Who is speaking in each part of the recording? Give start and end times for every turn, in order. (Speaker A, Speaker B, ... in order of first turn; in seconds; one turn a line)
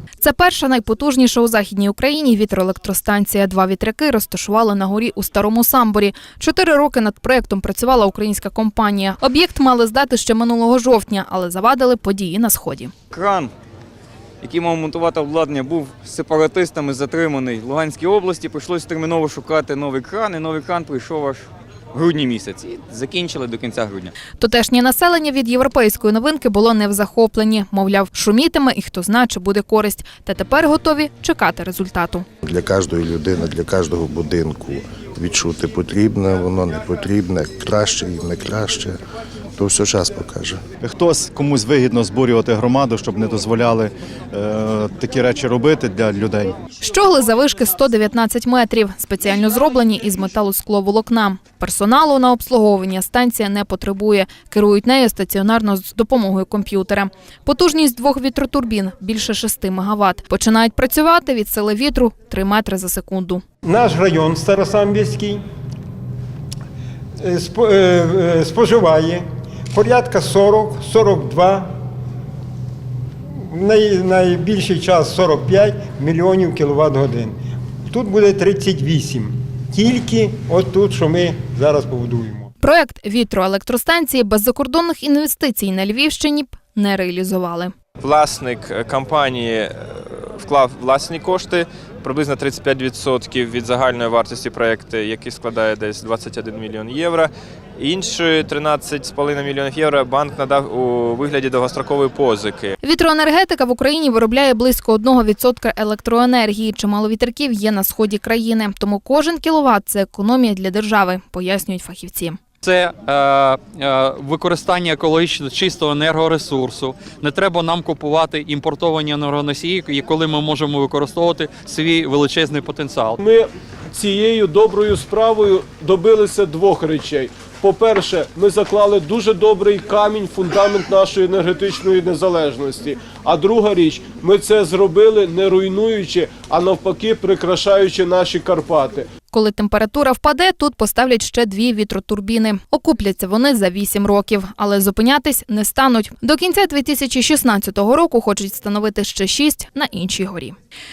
Speaker A: 0.2-12.9
Speaker B: 13.1-13.5
Speaker B: 14.4-24.1
Speaker A: 24.4-32.3
Speaker C: 32.4-39.0
Speaker C: 39.6-40.6
Speaker D: 40.8-46.6
Speaker A: 46.8-63.4
Speaker E: 63.6-65.4
Speaker E: 67.2-71.7
Speaker E: 73.5-77.4
Speaker E: 77.9-82.5
Speaker A: 82.6-87.7
Speaker F: 88.0-102.8
Speaker A: 102.8-112.4
Speaker G: 112.6-123.2
Speaker H: 123.2-139.1
Speaker A: 139.3-150.6